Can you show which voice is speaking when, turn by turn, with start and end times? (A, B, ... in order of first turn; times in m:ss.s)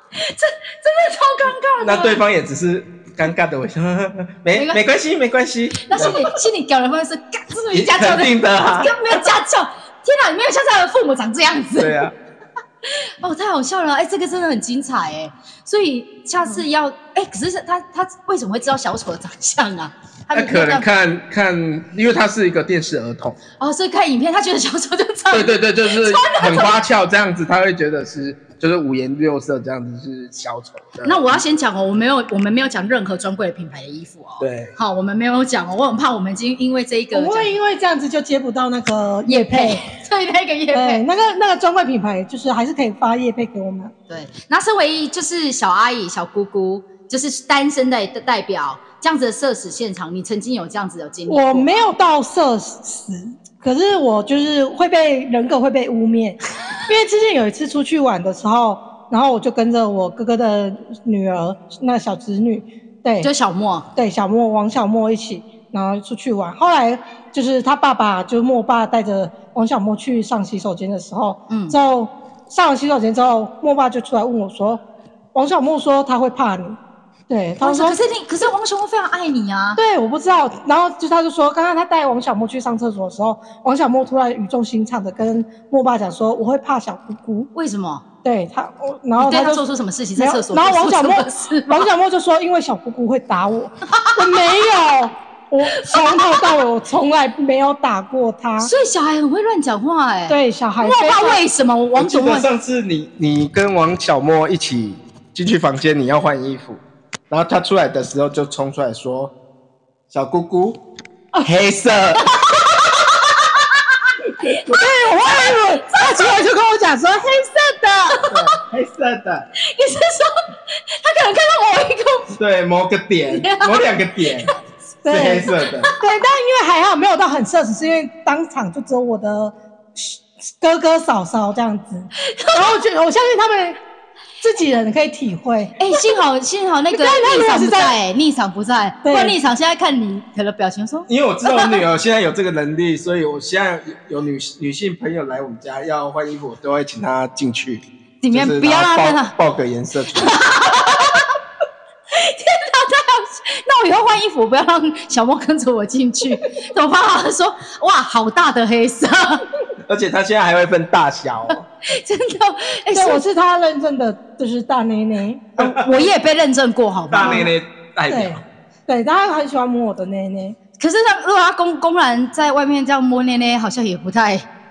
0:00.1-0:02.2 A
0:01.8-0:06.2 B
0:04.5-0:04.8 A
0:05.8-0:12.1 A
0:07.7-0:09.2 B
0:11.8-0:12.1 B
0:12.9-0:20.8 A
0:20.3-0:23.4 B
0:23.6-0:26.8 A
0:25.3-0:31.4 B
0:31.0-0:37.5 A
0:34.4-0:34.7 B
0:37.1-0:39.8 C
0:39.2-0:41.0 A
0:40.7-0:43.9 C
0:44.1-0:51.9 A
0:51.3-1:03.3 C
1:03.2-1:03.9 A
1:04.0-1:14.8 C
1:11.5-1:11.8 A
1:15.3-1:18.0 C
1:17.6-1:19.8 A
1:19.8-1:27.5 C
1:27.5-1:28.0 A
1:28.2-1:29.6 C
1:29.2-1:31.9 A
1:30.2-1:38.7 C
1:35.7-1:36.6 A
1:38.6-1:42.5 A
1:40.3-1:41.4 C
1:42.0-1:49.3 B
1:50.1-1:50.8 B
1:51.4-1:52.3 B
1:52.2-1:53.8 A
1:54.6-1:58.2 C
1:55.9-1:56.4 A
1:58.1-1:58.4 A
1:58.3-1:59.5 B
1:59.7-2:00.3 A
2:01.0-2:02.4 A
2:02.4-2:04.5 B
2:03.3-2:04.5 A
2:05.0-2:13.8 C
2:05.1-2:05.9 B
2:12.3-2:12.7 A
2:14.4-2:15.8 C
2:15.8-2:21.8 A
2:16.9-2:18.0 C
2:19.0-2:19.4 C
2:21.1-2:30.4 B
2:28.2-2:29.3 A
2:30.1-2:31.3 A
2:32.1-2:39.4 A
2:39.9-2:41.6 B
2:41.5-2:43.2 A
2:42.9-2:45.7 C
2:45.6-2:47.5 A
2:47.1-2:48.4 B
2:47.2-2:47.5 C
2:48.1-2:50.6 C
2:50.8-2:54.5 A